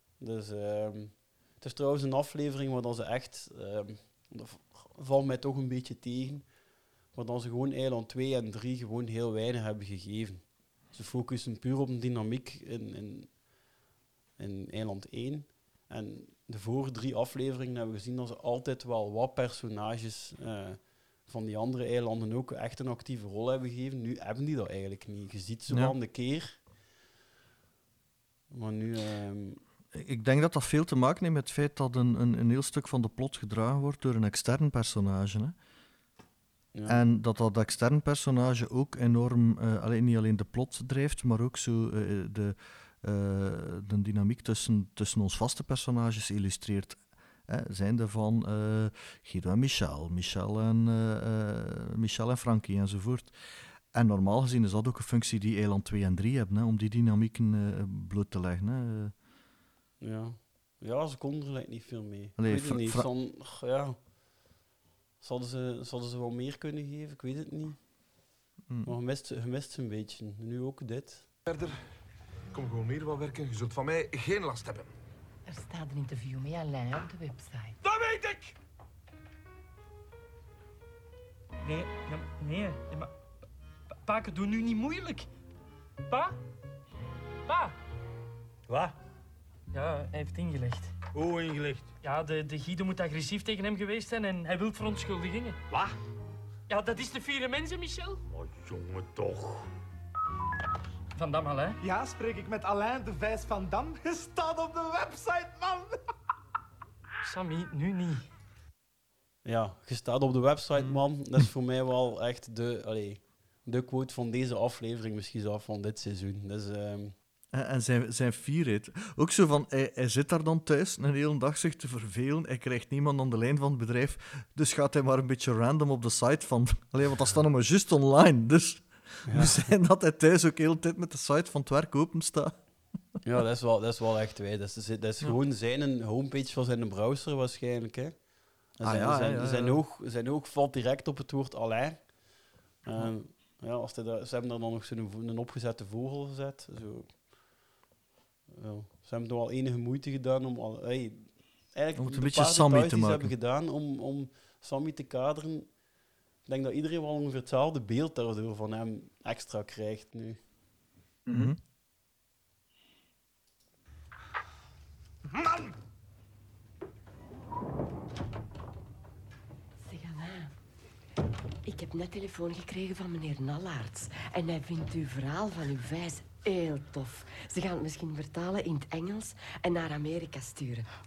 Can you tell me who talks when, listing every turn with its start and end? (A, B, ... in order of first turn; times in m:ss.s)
0:00.2-0:06.5 A
0:07.1-0:13.3 A
0:14.4-0:26.6 A
0:25.7-0:26.0 B
0:28.5-0:29.6 A
0:29.9-0:35.6 B
0:36.7-0:37.1 A
0:36.9-0:53.4 B
0:53.9-0:59.1 B
1:00.0-1:04.0 A
1:02.4-1:03.1 B
1:05.2-1:07.8 A
1:08.7-1:08.9 B
1:08.8-1:11.3 A
1:11.5-1:11.8 C
1:12.5-1:14.9 C
1:15.5-1:17.8 D
1:17.8-1:18.6 C
1:21.6-1:23.1 E
1:24.0-1:25.3 E
1:26.1-1:26.4 E
1:27.5-1:27.8 E
1:28.7-1:29.0 F
1:29.7-1:30.9 E
1:31.1-1:31.9 F
1:32.0-1:35.6 E
1:36.7-1:38.2 E
1:38.3-1:39.7 F
1:41.2-1:41.8 E
1:41.8-1:46.0 G
1:47.2-1:48.3 E
1:49.4-1:57.2 A
1:50.8-1:51.0 B
1:57.5-2:12.6 B
2:09.3-2:09.6 A
2:13.2-2:18.2 A
2:18.8-2:22.0 A
2:18.8-2:19.8 B
2:22.8-2:27.1 A
2:28.5-2:35.7 A
2:32.0-2:33.3 B
2:36.5-2:40.4 A
2:41.3-2:41.6 B
2:49.8-2:50.5 D
2:51.7-3:00.9 D